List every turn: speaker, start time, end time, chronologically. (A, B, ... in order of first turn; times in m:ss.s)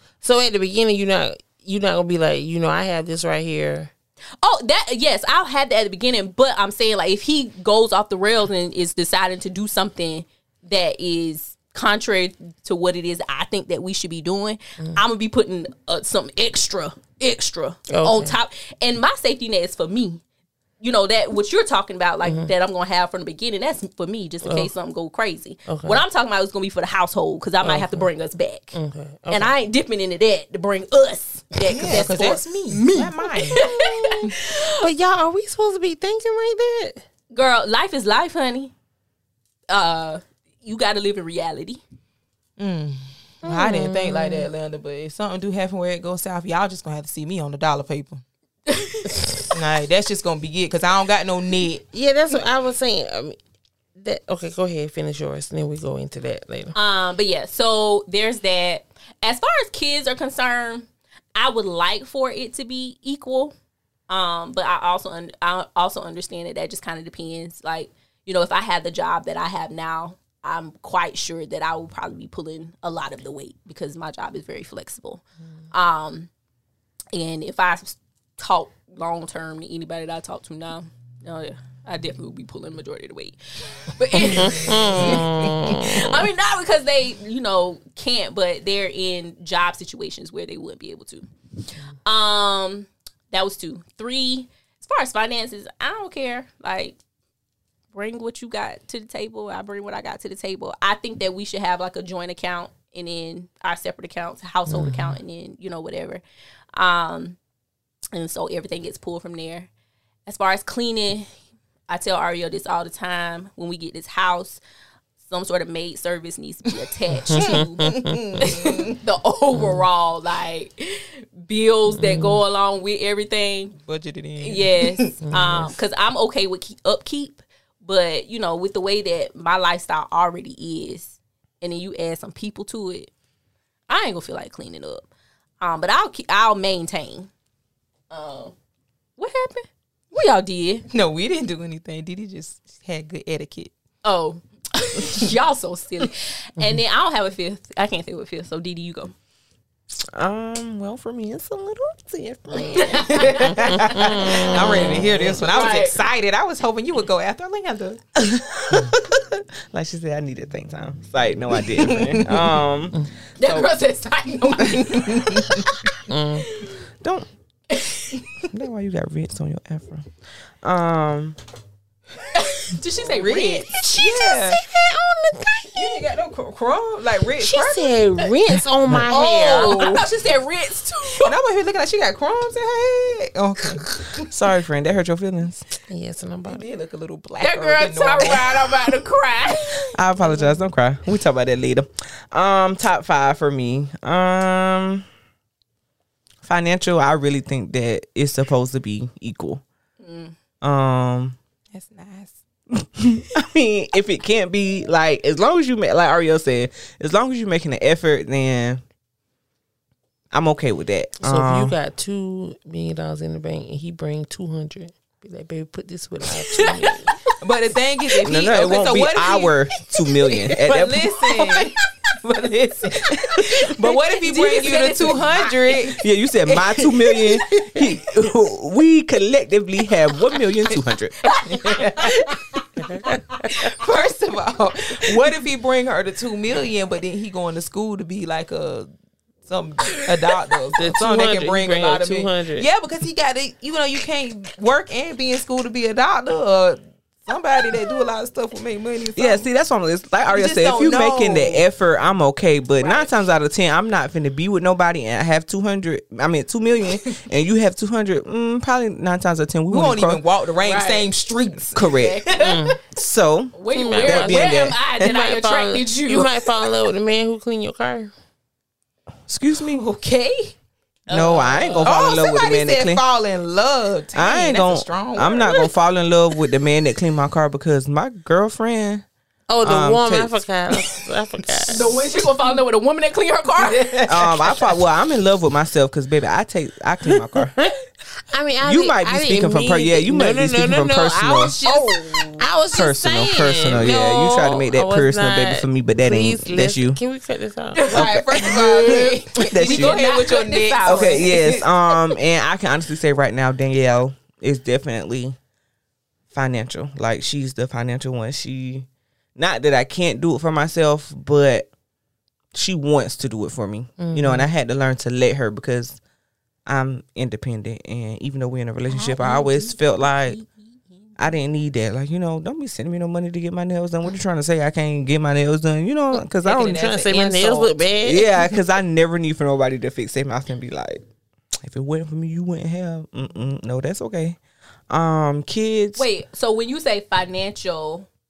0:00.2-0:03.9 A
0:04.4-0:20.2 B
0:17.9-0:18.4 A
0:20.8-0:28.8 B
0:22.2-0:22.5 A
0:24.4-0:24.7 A
0:25.7-0:26.0 A
0:27.6-0:28.1 A
0:28.7-0:29.5 A
0:29.3-0:34.8 B
0:31.6-0:33.6 C
0:33.6-0:37.0 A
0:37.3-0:38.7 B
0:39.7-0:41.8 B
0:42.6-0:48.2 C
0:43.4-0:44.5 A
0:48.7-0:49.2 B
0:49.5-0:51.9 C
0:51.9-0:53.4 A
0:54.0-0:56.8 A
0:56.8-1:03.6 B
1:04.1-1:16.3 B
1:17.1-1:31.3 B
1:24.4-1:25.5 C
1:24.4-1:26.2 A
1:32.0-1:37.0 B
1:37.9-1:46.2 B
1:44.7-1:45.2 A
1:46.7-1:47.4 B
1:48.1-1:49.7 B
1:50.3-1:51.3 B
1:51.9-1:54.6 B
1:55.2-2:03.8 B
1:57.3-1:58.1 A
1:57.3-1:58.9 C
1:59.6-1:59.8 A
2:01.9-2:02.4 A
2:03.8-2:05.0 C
2:04.4-2:13.1 B
2:05.2-2:05.8 A
2:13.9-2:15.1 B
2:15.6-2:17.3 B
2:18.1-2:18.5 B
2:19.2-2:20.9 B
2:20.9-2:23.7 C
2:24.0-2:29.1 B
2:30.1-2:33.4 D
2:32.5-2:33.7 B
2:32.8-2:38.9 C
2:34.3-2:36.0 B
2:34.8-2:35.3 D
2:38.7-2:43.1 D
2:41.6-2:42.6 C
2:43.4-2:45.8 B
2:43.4-2:43.7 C
2:44.4-2:45.6 C
2:46.1-2:46.5 A
2:46.5-2:46.8 B
2:47.0-2:47.3 D
2:47.7-2:48.2 B
2:48.5-2:51.4 D
2:52.4-2:54.4 B
2:53.0-2:54.6 C
2:54.1-2:56.0 A
2:55.7-2:57.9 C
2:57.4-3:00.0 A
2:59.1-3:01.4 B
2:59.4-3:00.1 C
3:01.2-3:04.3 C
3:04.3-3:05.6 D
3:05.9-3:06.6 A
3:06.5-3:08.8 C
3:07.4-3:09.9 B
3:09.9-3:15.1 D
3:16.4-3:19.6 D
3:20.0-3:20.4 B
3:20.6-3:21.4 D
3:21.7-3:22.4 C
3:22.8-3:28.8 D
3:30.3-3:31.7 D
3:31.2-3:37.2 A
3:36.6-3:36.9 B
3:37.4-3:39.6 C
3:38.2-3:41.1 D
3:40.2-3:46.0 C
3:43.9-3:46.0 B
3:46.0-3:51.3 D
3:46.8-3:47.6 C
3:51.2-3:52.6 B
3:51.4-3:52.4 C
3:53.5-3:58.9 C
3:59.4-4:09.5 C
4:00.8-4:02.7 A
4:09.2-4:20.2 D
4:10.3-4:11.6 C
4:12.8-4:13.1 B
4:19.7-4:22.6 C
4:20.6-4:21.1 B
4:21.7-4:25.2 D
4:21.9-4:22.6 B
4:22.4-4:22.8 A
4:23.6-4:26.5 B
4:23.7-4:28.1 A
4:29.3-4:29.9 D
4:29.7-4:30.6 C
4:31.1-4:32.0 B
4:31.1-4:33.0 D
4:31.8-4:35.7 C
4:34.1-4:39.1 D
4:39.5-4:41.8 A
4:39.6-4:40.4 D
4:41.7-4:44.3 B
4:43.6-4:44.6 C
4:44.1-4:47.7 D
4:48.3-4:58.0 A
4:48.6-4:51.7 D
4:52.7-4:57.0 D
4:54.3-4:54.5 C
4:57.8-5:01.5 B
4:57.9-5:00.0 D
4:57.9-5:01.7 C
5:00.8-5:05.4 D
5:06.3-5:11.7 D
5:12.5-5:16.0 D
5:14.0-5:14.5 A
5:16.7-5:20.4 D
5:18.9-5:20.5 B
5:21.2-5:26.9 D
5:26.4-5:27.8 C
5:26.6-5:28.3 A
5:28.0-5:31.0 D
5:31.6-5:34.4 D
5:34.9-5:36.0 D
5:36.0-5:38.1 B